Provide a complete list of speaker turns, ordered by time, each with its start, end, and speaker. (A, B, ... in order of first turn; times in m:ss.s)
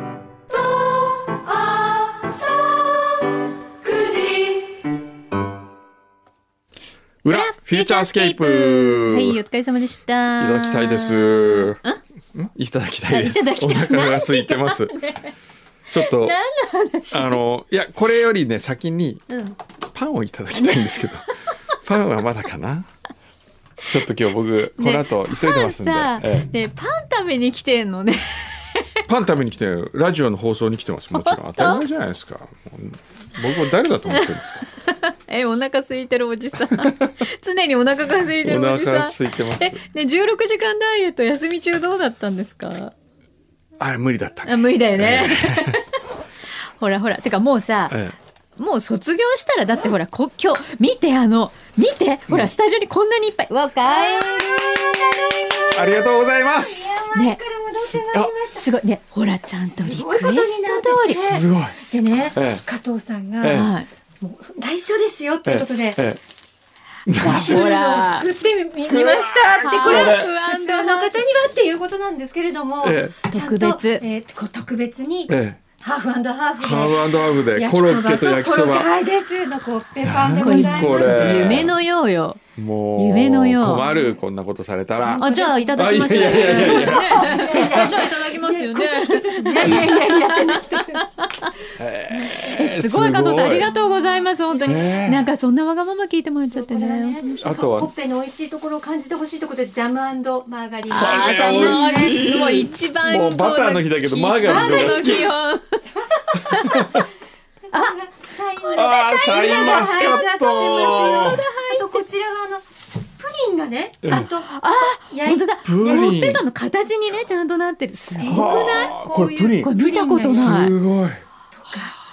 0:03.8-0:04.7 A
0:07.2-0:09.4 B
0:07.3-0:12.0 A
0:10.4-0:11.8 B
0:12.3-0:15.0 B
0:13.1-0:15.3 A
0:15.9-0:16.4 B
0:15.9-0:17.4 A
0:17.1-0:19.2 B
0:19.3-0:19.6 A
0:19.9-0:22.9 B
0:20.5-0:21.5 A
0:23.9-0:26.5 B
0:24.8-0:29.0 A
0:29.1-0:34.7 B
0:31.1-0:31.8 A
0:33.6-0:42.9 A
0:36.6-0:37.1 B
0:38.4-0:39.8 B
0:43.8-0:45.8 B
0:44.4-0:45.8 A
0:46.6-0:48.0 A
0:47.9-0:48.1 B
0:48.6-0:55.9 A
0:52.3-0:52.5 B
0:53.8-0:58.7 C
0:55.8-0:57.1 B
0:57.1-0:57.4 A
0:57.8-0:58.3 B
0:58.5-1:01.4 A
0:59.5-1:06.0 C
1:01.1-1:01.8 B
1:02.3-1:02.6 B
1:03.4-1:03.7 B
1:03.5-1:03.9 A
1:05.5-1:06.2 B
1:07.1-1:07.7 B
1:07.2-1:08.3 A
1:07.2-1:21.7 C
1:08.8-1:10.3 B
1:09.6-1:11.2 A
1:12.8-1:13.1 B
1:13.3-1:14.0 A
1:15.3-1:15.6 B
1:16.6-1:18.9 B
1:20.0-1:21.7 B
1:20.4-1:22.4 A
1:22.6-1:28.1 B
1:23.0-1:23.9 A
1:25.0-1:31.0 C
1:25.2-1:31.5 A
1:31.8-1:33.7 B
1:32.1-1:37.4 A
1:33.6-1:34.9 C
1:34.7-1:35.3 B
1:36.5-1:42.6 C
1:37.4-1:37.9 B
1:40.9-1:45.3 B
1:40.9-1:47.0 A
1:44.4-1:45.3 C
1:45.9-1:47.0 C
1:46.5-1:47.0 B
1:47.7-1:52.6 C
1:47.7-1:48.0 A
1:48.6-1:52.0 A
1:48.7-1:51.4 B
1:53.2-1:56.1 C
1:54.1-1:58.9 A
1:55.6-1:56.4 B
1:58.2-2:00.7 C
1:58.2-1:59.7 B
1:59.6-2:00.8 A
2:00.3-2:01.2 B
2:01.5-2:02.0 C